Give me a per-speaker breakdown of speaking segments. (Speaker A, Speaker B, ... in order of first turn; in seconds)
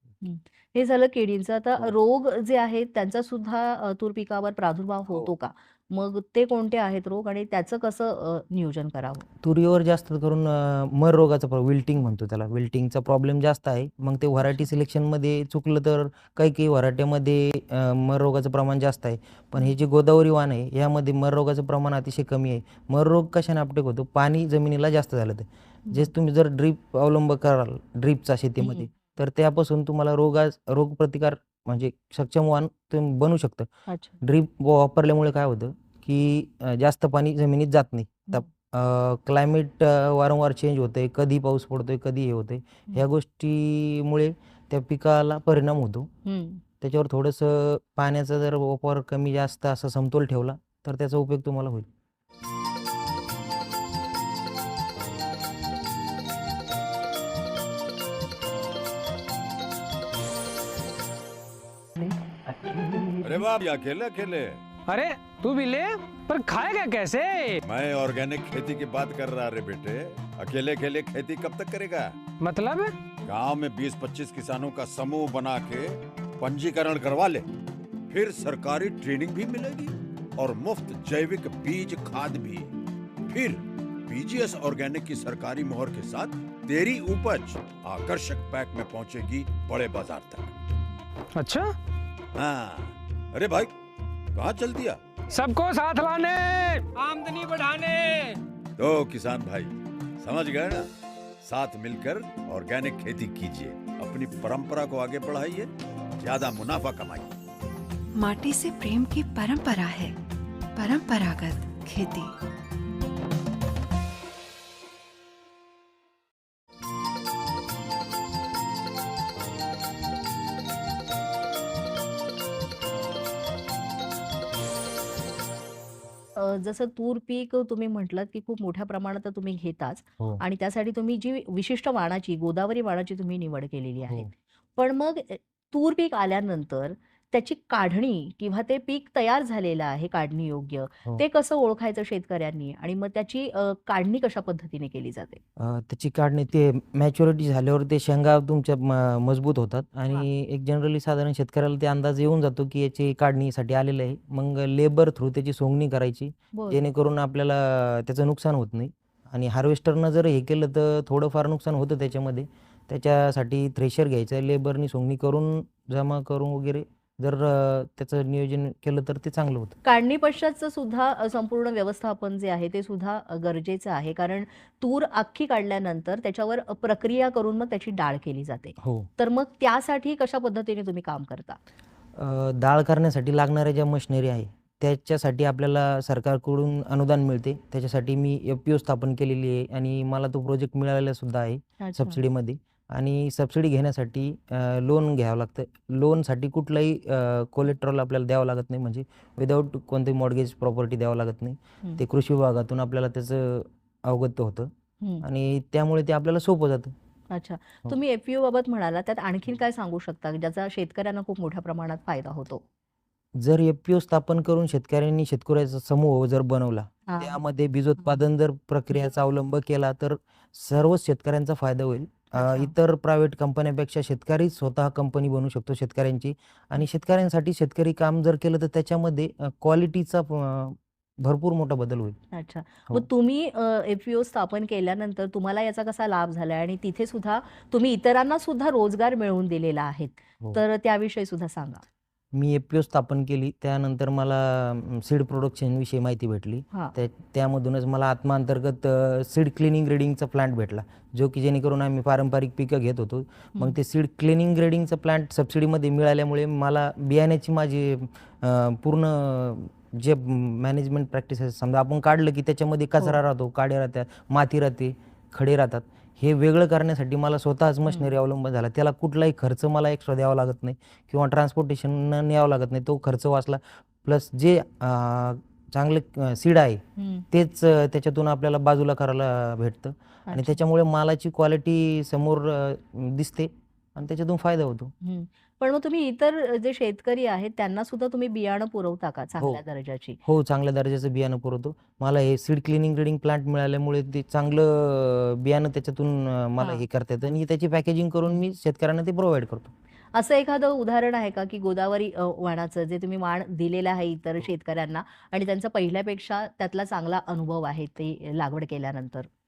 Speaker A: 0.2-9.3, 28.6-28.9, 33.9-34.2, 46.3-46.6, 126.4-145.4, 156.5-156.8, 169.8-181.6, 191.8-192.2, 207.3-212.6, 217.1-217.4, 222.4-222.7, 232.3-241.8, 267.9-268.1, 277.0-277.2, 280.3-280.6, 285.0-290.2, 300.1-309.3
Speaker B: 9.4-33.7, 34.2-46.1, 46.8-51.9, 145.6-169.8, 178.8-179.1, 182.2-204.7, 205.2-206.9, 213.4-232.2, 242.3-284.9, 290.2-299.7
Speaker C: 63.2-64.6, 67.7-72.1, 73.2-77.5, 78.1-82.7, 83.3-90.5, 92.3-93.7, 94.3-95.0, 98.8-100.9, 101.4-107.3
Speaker D: 64.9-67.6, 72.4-72.9, 91.4-91.7, 95.3-98.4
Speaker E: 108.1-110.2, 110.8-112.3